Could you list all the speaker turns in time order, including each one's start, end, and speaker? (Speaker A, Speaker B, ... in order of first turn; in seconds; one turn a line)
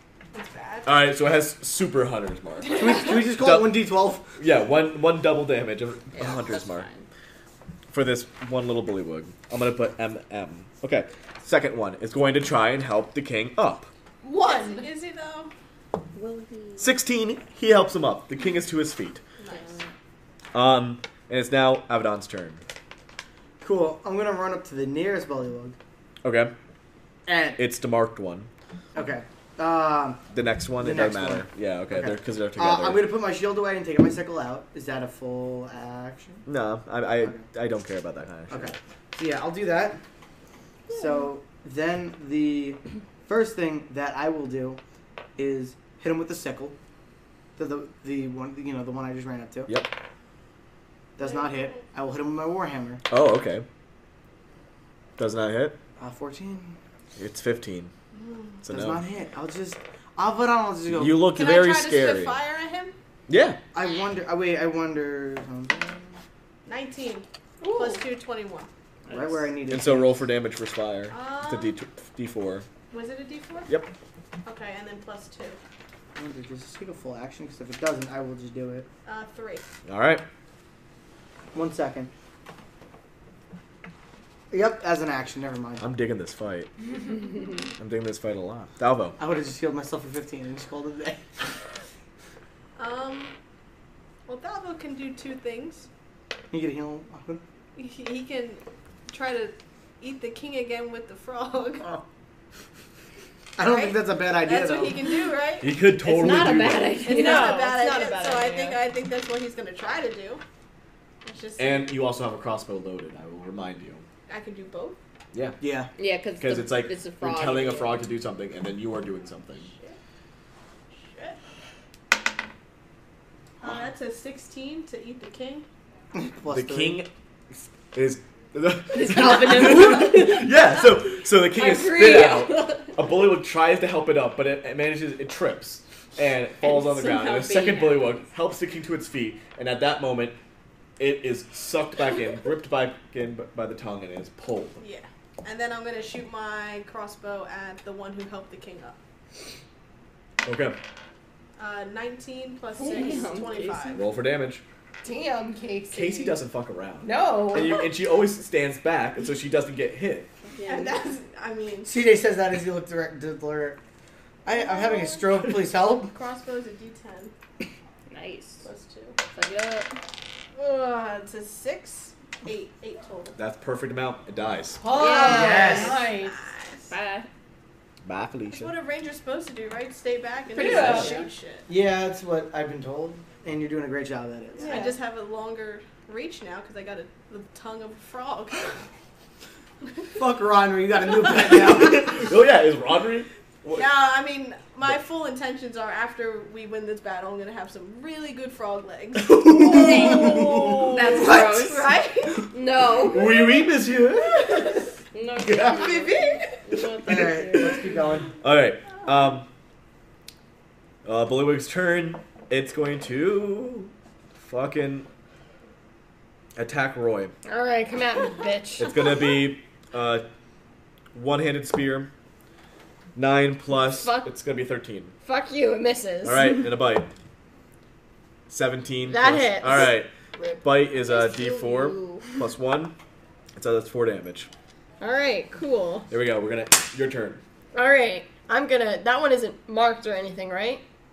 Speaker A: 0.3-1.0
Speaker B: 0.8-3.8
Speaker C: 2.7-4.3
Speaker B: 4.4-6.9
Speaker D: 6.2-7.1
Speaker B: 7.9-13.9
Speaker E: 14.2-14.9
Speaker A: 14.4-15.5
Speaker D: 16.1-16.9
Speaker B: 16.8-19.2
Speaker A: 19.4-19.8
Speaker D: 19.5-19.8
Speaker B: 20.5-22.6
Speaker C: 23.6-25.8
Speaker B: 26.2-26.5
Speaker C: 27.3-27.6
Speaker B: 27.6-28.5
Speaker C: 28.9-30.2
Speaker B: 30.3-33.1
Speaker C: 30.8-36.5
Speaker B: 36.5-38.7
Speaker C: 38.5-40.0
Speaker C: 40.9-44.8
Speaker C: 45.4-46.8
Speaker C: 47.6-49.8
Speaker C: 51.2-53.0
Speaker A: 51.2-51.8
Speaker B: 53.1-53.6
Speaker B: 55.2-55.8
Speaker C: 56.0-56.8
Speaker B: 57.2-57.9
Speaker A: 58.1-58.6
Speaker B: 58.6-59.0
Speaker C: 58.7-61.2
Speaker B: 60.9-62.4
Speaker A: 61.3-63.0
Speaker B: 63.3-63.6
Speaker C: 63.7-66.2
Speaker A: 66.7-68.7
Speaker E: 67.6-68.0
Speaker D: 69.1-69.5
Speaker C: 69.1-70.2
Speaker B: 69.7-72.7
Speaker A: 71.1-71.7
Speaker A: 72.9-73.7
Speaker A: 74.5-75.6
Speaker C: 76.2-78.9
Speaker A: 79.1-79.7
Speaker B: 79.9-80.2
Speaker C: 81.5-82.1
Speaker C: 84.5-85.8
Speaker B: 85.8-86.7
Speaker B: 87.8-89.2
Speaker C: 89.2-91.2
Speaker A: 92.8-93.4
Speaker A: 94.3-95.9
Speaker C: 96.5-97.4
Speaker A: 97.8-102.0
Speaker C: 103.6-105.0
Speaker A: 103.6-105.8
Speaker B: 105.6-107.0
Speaker D: 106.1-107.6
Speaker A: 107.0-110.4
Speaker E: 107.1-108.8
Speaker A: 111.2-112.0
Speaker B: 111.6-114.0
Speaker A: 114.3-115.0
Speaker B: 115.3-115.6
Speaker C: 115.6-115.9
Speaker D: 116.0-118.0
Speaker B: 116.4-119.7
Speaker A: 119.6-120.0
Speaker A: 120.9-121.4
Speaker A: 123.6-125.7
Speaker C: 126.1-127.0
Speaker B: 126.5-140.4
Speaker E: 128.9-130.6
Speaker D: 131.6-132.9
Speaker E: 131.6-132.5
Speaker D: 136.6-138.2
Speaker B: 141.0-144.8
Speaker A: 144.8-149.0
Speaker B: 150.4-150.8
Speaker A: 151.6-154.1
Speaker D: 152.8-154.0
Speaker B: 153.9-154.6
Speaker E: 155.0-156.4
Speaker B: 155.9-160.3
Speaker E: 157.0-157.9
Speaker D: 160.5-160.9
Speaker A: 160.7-161.9
Speaker C: 161.8-163.8
Speaker C: 164.4-166.1
Speaker A: 164.5-165.5
Speaker A: 166.1-167.3
Speaker D: 168.1-168.7
Speaker A: 168.6-169.2
Speaker D: 169.3-169.9
Speaker A: 170.6-173.4
Speaker B: 173.3-174.8
Speaker E: 174.8-176.3
Speaker D: 174.9-176.0
Speaker C: 175.1-176.0
Speaker A: 175.1-176.9
Speaker D: 176.9-177.3
Speaker B: 178.1-178.7
Speaker A: 178.5-181.7
Speaker D: 180.6-181.3
Speaker E: 180.6-181.2
Speaker C: 180.7-181.1
Speaker C: 181.7-184.8
Speaker A: 184.6-188.8
Speaker E: 184.6-184.9
Speaker A: 189.8-190.1
Speaker C: 190.2-192.1
Speaker B: 191.4-193.9
Speaker A: 193.8-202.5
Speaker B: 199.2-201.0
Speaker D: 199.7-201.9
Speaker D: 202.5-203.4
Speaker B: 203.0-204.8
Speaker A: 204.2-204.9
Speaker D: 205.2-206.1
Speaker B: 205.4-205.9
Speaker A: 205.6-206.7
Speaker E: 206.7-207.8
Speaker C: 207.1-208.3
Speaker B: 208.4-209.5
Speaker B: 211.0-215.1
Speaker B: 216.6-217.3
Speaker E: 217.5-219.2
Speaker B: 218.8-220.3
Speaker B: 221.1-222.1
Speaker B: 223.2-225.1
Speaker E: 223.7-224.3
Speaker E: 225.2-226.7
Speaker B: 226.2-227.1
Speaker B: 228.5-230.1
Speaker E: 229.1-230.0
Speaker D: 230.4-232.4
Speaker B: 230.6-232.9
Speaker B: 233.6-234.5
Speaker E: 235.0-236.1
Speaker B: 236.1-237.4
Speaker E: 237.7-240.8